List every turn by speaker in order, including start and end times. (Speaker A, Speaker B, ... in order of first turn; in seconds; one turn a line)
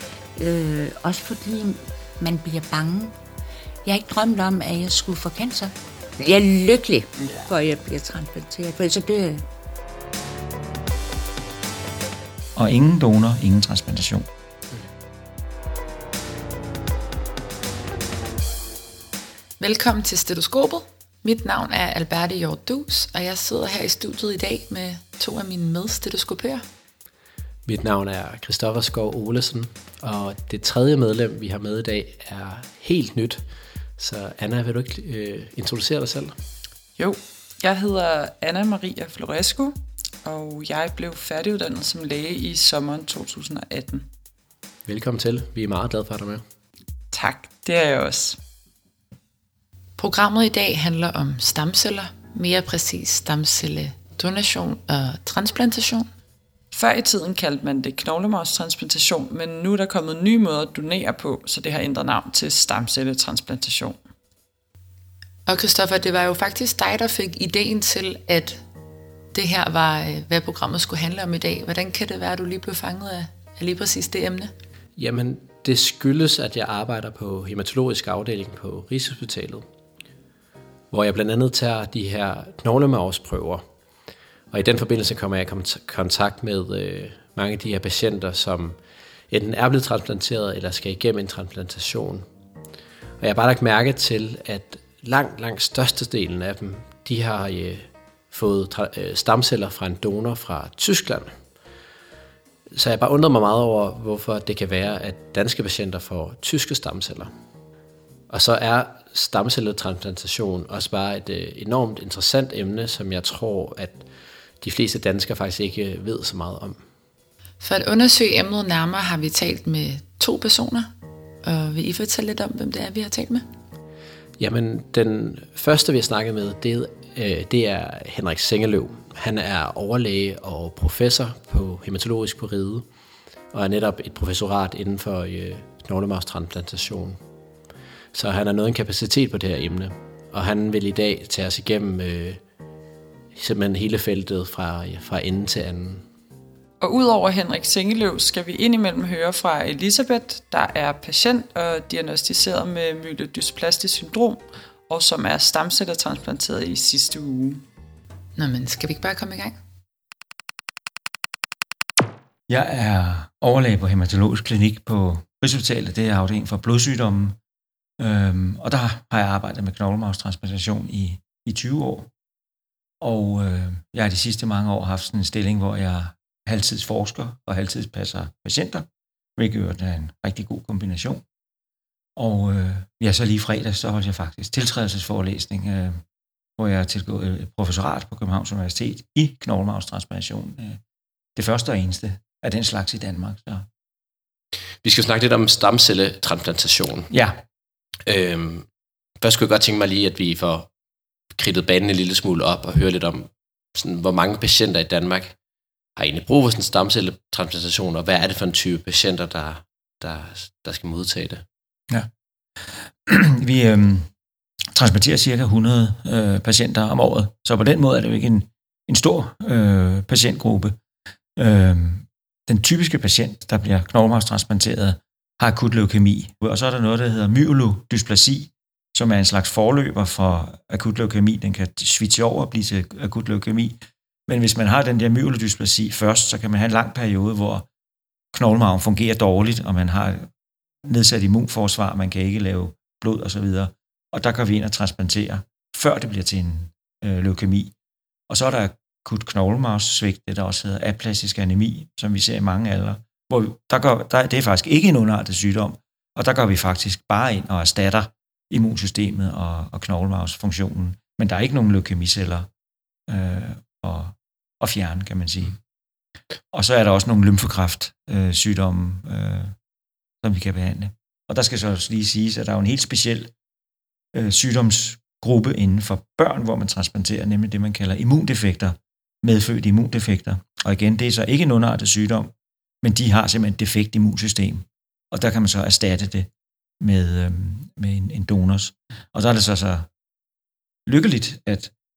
Speaker A: 0.4-3.1
Speaker A: 3.9-9.4
Speaker B: 12.6-14.3
Speaker C: 19.6-26.6
Speaker D: 27.7-33.5
Speaker D: 34.0-36.4
Speaker E: 37.0-44.1
Speaker D: 44.9-46.4
Speaker E: 47.1-48.4
Speaker C: 50.0-56.1
Speaker E: 56.7-64.0
Speaker C: 65.5-68.6
Speaker C: 69.3-74.5
Speaker D: 75.0-79.7
Speaker D: 80.9-83.6
Speaker D: 84.5-92.2
Speaker D: 93.2-101.4
Speaker D: 102.7-107.3
Speaker D: 108.3-114.1
Speaker D: 114.6-116.8
Speaker C: 117.6-123.5
Speaker D: 124.4-132.8
Speaker D: 133.5-137.2
Speaker D: 138.1-142.4
Speaker D: 143.3-146.1
Speaker E: 146.8-157.6
Speaker C: 158.4-159.6
Speaker B: 162.5-167.4
Speaker B: 168.0-172.1
Speaker B: 173.0-181.2
Speaker B: 182.2-186.0
Speaker B: 186.6-190.8
Speaker B: 191.4-193.7
Speaker D: 194.8-197.1
Speaker B: 197.1-197.4
Speaker D: 198.1-198.7
Speaker D: 199.2-200.7
Speaker D: 201.3-205.4
Speaker D: 206.0-211.4
Speaker B: 212.6-214.1
Speaker B: 214.7-220.8
Speaker B: 221.4-237.7
Speaker B: 238.3-240.3
Speaker B: 240.8-247.7
Speaker B: 248.3-262.5
Speaker B: 263.1-265.6
Speaker B: 266.5-269.6
Speaker B: 270.2-273.3
Speaker B: 274.1-286.3
Speaker B: 286.8-289.9
Speaker B: 290.9-291.7